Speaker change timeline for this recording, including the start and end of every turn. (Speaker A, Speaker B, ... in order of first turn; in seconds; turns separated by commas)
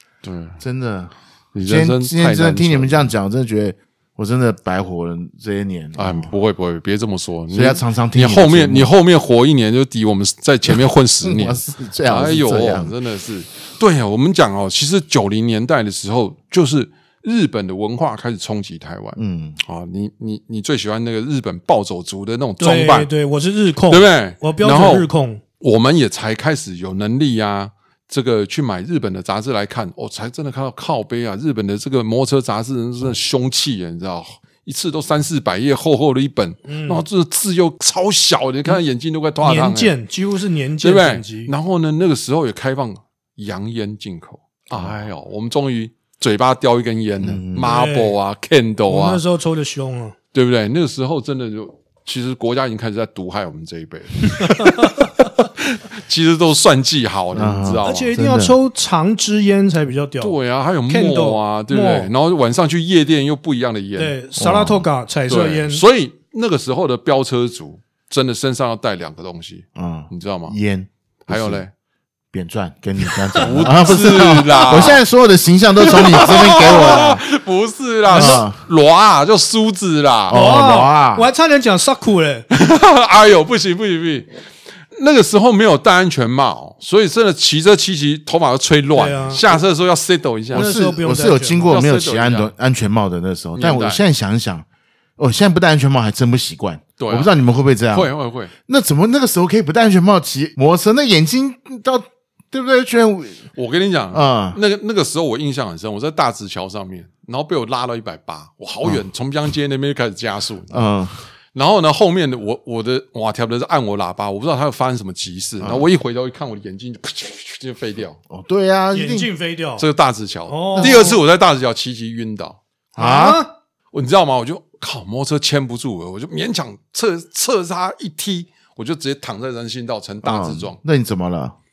Speaker A: 0.2-0.6, Speaker B: 0.6-6.3, Speaker A: 1.5-3.1, Speaker A: 6.0-23.1, Speaker B: 7.5-8.9, Speaker B: 10.7-12.9, Speaker B: 19.1-19.6, Speaker C: 22.6-25.4, Speaker A: 23.9-25.1, Speaker A: 25.6-40.0, Speaker C: 36.6-37.0, Speaker C: 39.4-41.5, Speaker A: 40.8-49.2, Speaker B: 47.2-47.8, Speaker C: 47.6-48.2, Speaker C: 48.9-50.1, Speaker A: 50.3-58.1, Speaker B: 57.3-58.6, Speaker C: 57.8-60.4, Speaker A: 60.2-64.2, Speaker C: 60.9-62.1, Speaker C: 64.0-65.8, Speaker B: 64.4-64.9, Speaker A: 65.3-70.6, Speaker B: 69.8-71.6, Speaker A: 71.3-71.7, Speaker B: 72.3-77.2, Speaker A: 73.3-75.0, Speaker A: 75.8-80.4, Speaker B: 78.1-78.6, Speaker C: 78.1-78.4, Speaker B: 80.3-81.3, Speaker C: 80.3-82.5, Speaker A: 82.5-84.3, Speaker A: 84.9-90.7, Speaker C: 88.9-89.5, Speaker B: 90.5-94.7, Speaker C: 90.5-91.8, Speaker A: 91.6-92.5, Speaker A: 93.5-94.0, Speaker B: 95.2-98.1, Speaker A: 97.0-97.3, Speaker A: 97.9-98.5, Speaker B: 98.7-103.4, Speaker A: 103.5-110.7, Speaker B: 104.1-104.6, Speaker B: 110.7-111.2, Speaker A: 111.5-118.2, Speaker B: 115.6-115.9, Speaker B: 118.3-119.3, Speaker C: 118.9-119.9, Speaker A: 119.8-122.6, Speaker C: 120.5-121.2, Speaker B: 120.8-121.2, Speaker B: 122.9-123.4, Speaker C: 123.0-123.5, Speaker A: 123.9-130.8, Speaker B: 130.2-131.5